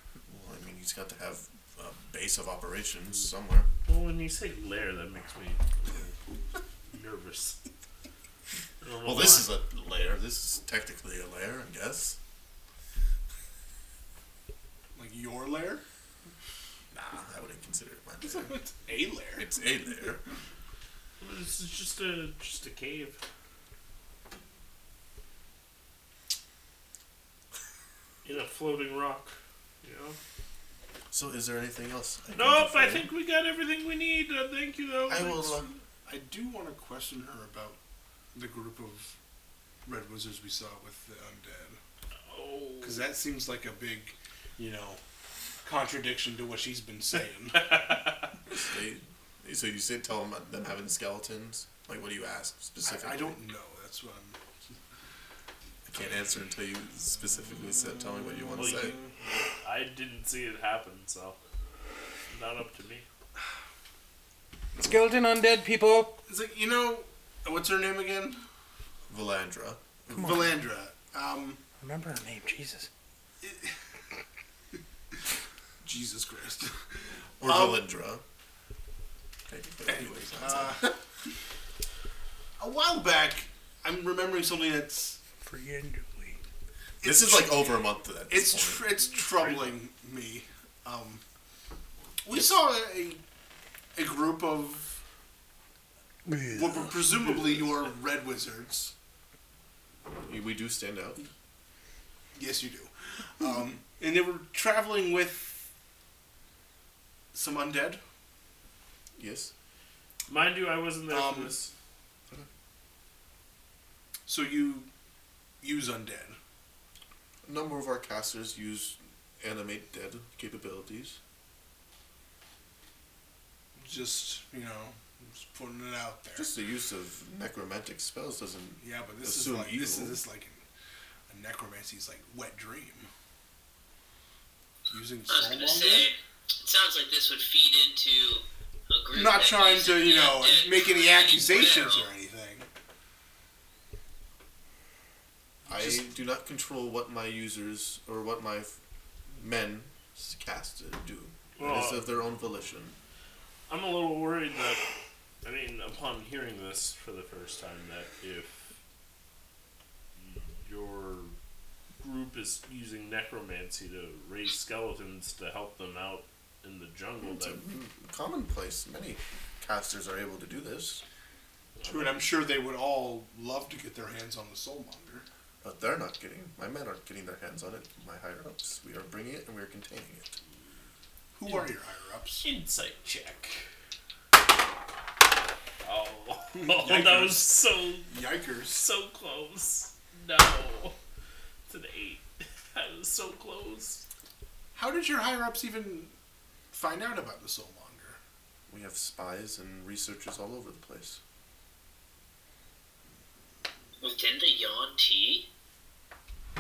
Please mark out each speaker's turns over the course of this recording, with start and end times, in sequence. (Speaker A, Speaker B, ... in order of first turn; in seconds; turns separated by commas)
Speaker A: 0.3-3.7, Speaker B: 3.9-6.2, Speaker B: 6.9-7.6, Speaker B: 8.8-9.5, Speaker A: 9.0-12.2, Speaker C: 14.9-15.8, Speaker A: 16.9-18.5, Speaker C: 18.2-19.5, Speaker A: 19.4-20.2, Speaker B: 21.2-23.2, Speaker B: 28.2-30.2, Speaker A: 31.1-33.1, Speaker B: 32.3-35.8, Speaker A: 35.1-35.7, Speaker C: 36.1-37.8, Speaker C: 38.3-39.2, Speaker C: 39.9-41.8, Speaker B: 42.3-43.1, Speaker C: 42.8-45.0, Speaker C: 45.6-48.0, Speaker B: 47.6-48.3, Speaker A: 48.5-53.4, Speaker C: 52.9-54.8, Speaker A: 55.9-59.0, Speaker B: 58.6-61.4, Speaker C: 58.6-59.1, Speaker B: 62.3-63.0, Speaker D: 64.8-66.2, Speaker C: 66.3-68.4, Speaker A: 69.1-70.5, Speaker D: 70.1-70.5, Speaker C: 70.2-71.6, Speaker D: 71.8-72.9, Speaker C: 73.4-73.8, Speaker C: 75.8-77.8, Speaker A: 77.4-78.2, Speaker A: 79.5-81.0, Speaker C: 79.9-81.0, Speaker C: 82.6-85.2, Speaker D: 85.4-86.4, Speaker C: 87.0-87.6, Speaker A: 87.0-89.0, Speaker C: 88.3-91.2, Speaker B: 89.3-89.8, Speaker C: 92.2-93.2, Speaker A: 92.3-92.6, Speaker C: 94.0-94.9, Speaker D: 96.3-96.7, Speaker C: 96.5-98.9, Speaker A: 100.1-101.2, Speaker C: 102.3-105.7, Speaker C: 107.3-108.0, Speaker A: 109.2-109.5, Speaker B: 110.3-111.7, Speaker C: 111.1-111.5, Speaker C: 114.3-114.9, Speaker C: 115.6-116.4, Speaker A: 117.5-121.2, Speaker C: 123.8-126.5, Speaker A: 126.4-130.2, Speaker C: 128.8-130.6, Speaker C: 131.3-133.1, Speaker C: 134.9-136.1, Speaker E: 135.3-142.1, Speaker C: 139.1-142.7, Speaker C: 145.7-146.1, Speaker A: 145.7-148.8, Speaker A: 149.4-153.0, Speaker B: 151.6-152.1, Speaker B: 153.7-154.9, Speaker B: 155.4-158.7, Speaker B: 160.2-161.3, Speaker B: 162.0-167.6, Speaker A: 167.2-171.0, Speaker B: 171.8-172.2, Speaker C: 171.8-175.3, Speaker A: 175.6-180.4, Speaker C: 181.3-182.4, Speaker B: 182.4-183.6, Speaker B: 185.8-188.1, Speaker C: 186.5-187.6, Speaker C: 188.1-188.9, Speaker B: 188.7-191.0, Speaker B: 191.7-194.0, Speaker C: 194.8-196.1, Speaker C: 196.7-198.2, Speaker A: 198.7-201.2, Speaker E: 204.0-205.5